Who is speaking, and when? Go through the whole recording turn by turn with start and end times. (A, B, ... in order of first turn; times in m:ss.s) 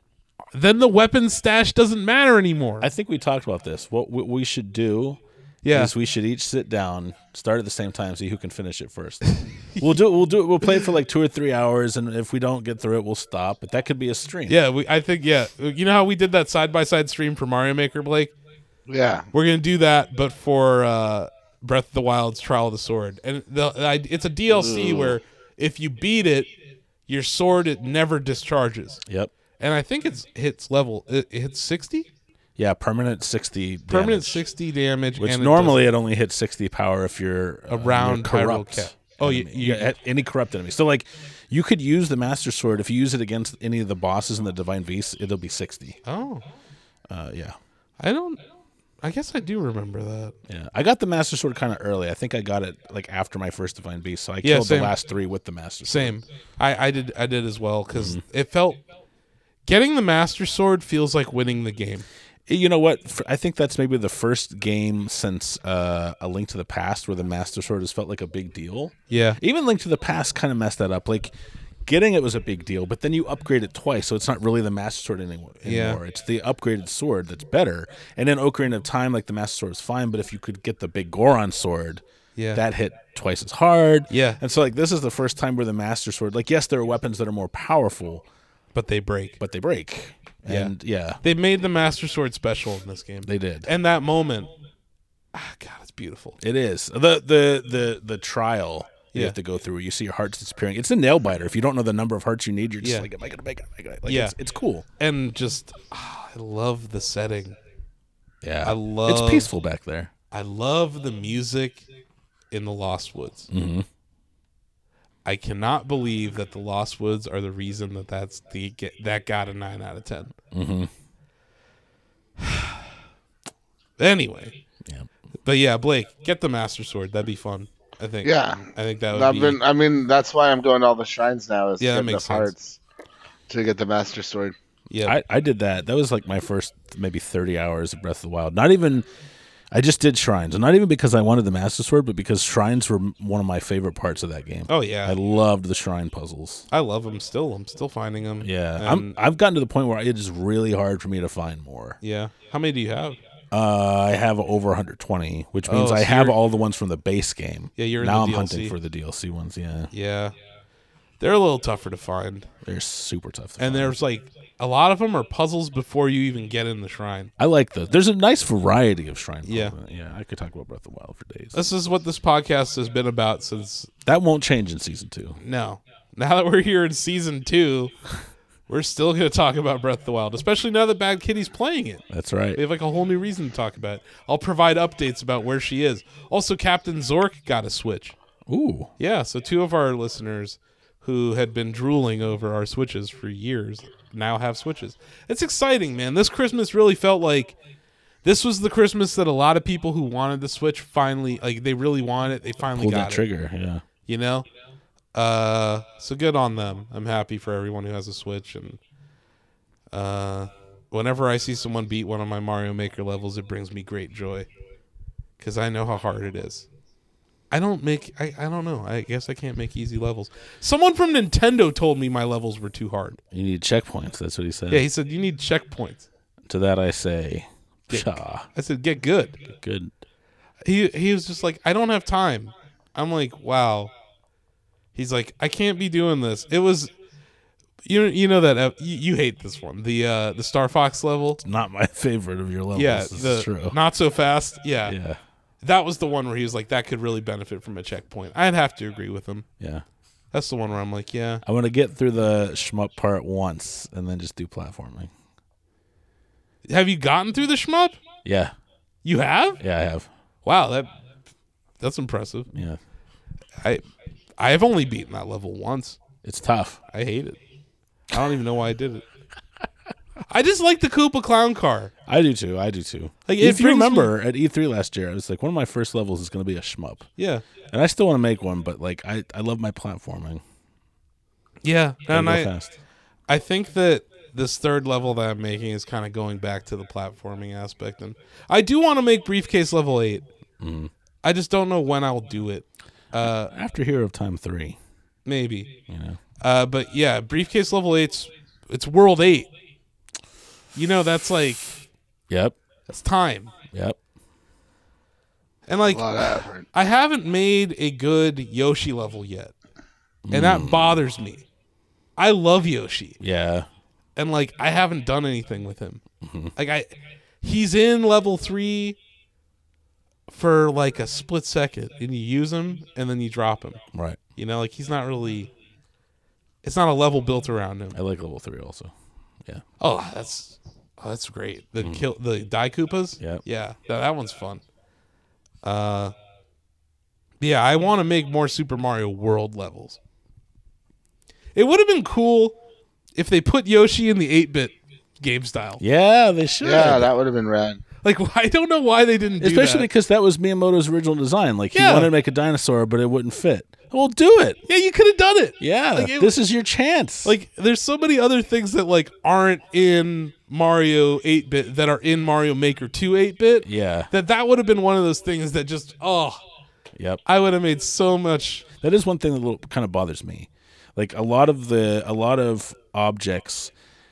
0:00.5-0:02.9 A
0:02.8-0:05.2 B
0:05.6-0:05.9 A
0:05.7-0:14.6 B
0:09.4-0:09.8 A
0:14.5-0:18.3 A
0:18.9-0:19.3 C
0:19.3-0:26.5 A
0:24.5-0:25.2 C
0:27.1-0:29.0 A
0:29.1-0:29.3 B
0:29.6-0:32.1 A
0:32.6-0:34.4 B
0:33.9-0:35.8 A
0:35.2-0:46.0 B
0:37.7-0:39.9 A
0:46.0-0:46.5 A
0:47.1-0:47.6 B
0:48.0-0:48.4 A
0:49.0-0:50.4 A
0:50.5-0:56.2 B
0:54.4-0:55.0 A
0:55.8-0:58.8 A
0:57.9-0:58.2 B
0:59.7-1:02.1 A
1:02.5-1:11.3 B
1:09.1-1:09.4 A
1:11.9-1:22.0 B
1:15.6-1:16.0 A
1:22.4-1:22.6 A
1:22.5-1:28.2 B
1:24.1-1:24.4 A
1:28.7-1:29.4 A
1:29.4-1:31.2 B
1:30.5-1:34.5 A
1:33.2-1:33.7 B
1:35.3-1:36.4 A
1:36.4-1:44.8 B
1:42.8-1:43.1 A
1:44.1-1:44.4 A
1:45.0-1:47.6 A
1:48.4-1:50.1 B
1:48.6-1:49.5 A
1:50.3-1:51.8 A
1:52.5-1:53.5 A
1:53.5-1:53.9 B
1:55.2-2:00.3 A
2:00.5-2:00.9 B
2:02.4-2:02.8 A
2:04.0-2:04.6 A
2:05.4-2:09.6 A
2:08.2-2:12.8 C
2:11.8-2:12.5 A
2:13.5-2:14.6 C
2:14.9-2:15.2 A
2:15.0-2:19.0 B
2:19.7-2:26.7 B
2:24.7-2:25.2 A
2:26.7-2:29.2 A
2:28.4-2:32.0 B
2:32.0-2:33.2 A
2:33.5-2:39.9 B
2:35.7-2:36.4 A
2:37.8-2:38.8 A
2:39.9-2:40.3 A
2:41.2-2:42.5 A
2:42.6-2:44.0 B
2:43.6-2:47.3 A
2:47.4-2:51.6 B
2:49.4-2:49.8 A
2:51.5-2:53.9 A
2:54.0-2:55.4 B
2:55.4-2:58.0 A
2:58.7-3:02.0 A
3:02.1-3:02.6 B
3:02.6-3:08.2 A
3:08.5-3:08.9 B
3:09.0-3:17.6 A
3:18.2-3:23.2 A
3:22.7-3:23.8 B
3:24.0-3:24.5 A
3:25.1-3:28.8 A
3:29.9-3:34.5 A
3:35.4-3:36.7 A
3:37.5-3:43.2 A
3:43.3-3:44.9 B
3:44.7-3:46.1 A
3:46.5-3:48.5 B
3:47.9-3:49.4 A
3:49.5-3:49.9 B
3:50.6-3:53.9 A
3:55.0-3:56.9 A
3:57.8-4:01.4 A
4:01.4-4:03.8 B
4:02.7-4:05.0 A
4:04.8-4:05.2 B
4:05.6-4:09.5 A
4:09.6-4:09.8 B
4:10.3-4:11.4 A
4:11.4-4:15.1 B
4:16.7-4:18.0 A
4:18.2-4:18.5 B
4:19.0-4:19.6 A
4:19.6-4:20.1 B
4:20.4-4:20.9 A
4:21.8-4:22.5 A
4:22.5-4:22.8 B
4:24.4-4:26.0 A
4:26.2-4:26.8 B
4:26.9-4:27.4 A
4:28.1-4:29.0 A
4:30.3-4:31.9 A
4:32.1-4:37.1 B
4:33.3-4:34.1 A
4:37.2-4:37.5 A
4:37.7-4:40.4 B
4:41.6-4:42.5 A
4:42.1-4:42.7 B
4:43.3-4:50.3 A
4:50.6-4:50.9 B
4:51.2-4:53.5 A
4:53.2-4:54.8 B
4:55.3-4:55.7 A
4:55.9-4:56.2 B
4:56.4-4:59.5 A
5:00.8-5:01.8 A
5:02.3-5:02.6 B
5:02.9-5:03.5 A
5:03.7-5:04.0 B
5:05.7-5:09.5 A
5:05.9-5:06.7 C
5:10.2-5:11.0 B
5:10.3-5:11.4 A
5:12.2-5:13.2 A
5:13.2-5:13.7 B
5:14.2-5:16.0 A
5:16.2-5:16.5 B
5:16.6-5:16.9 A
5:17.4-5:19.0 A
5:20.3-5:23.8 A
5:23.9-5:24.2 B
5:24.4-5:25.5 A
5:26.6-5:28.0 A
5:27.9-5:28.9 B
5:29.8-5:34.6 A
5:31.8-5:32.0 B
5:35.6-5:36.1 A
5:37.4-5:40.0 A
5:41.6-5:42.6 A
5:43.2-5:45.8 A
5:45.8-5:47.1 B
5:46.6-5:47.8 C
5:48.0-5:49.9 A
5:49.4-5:54.6 B
5:51.8-5:52.1 A
5:54.7-5:56.3 A
5:55.6-5:57.3 B
5:57.2-6:06.4 A
6:03.6-6:04.1 B
6:07.0-6:07.2 B
6:07.2-6:08.7 A
6:08.8-6:13.7 B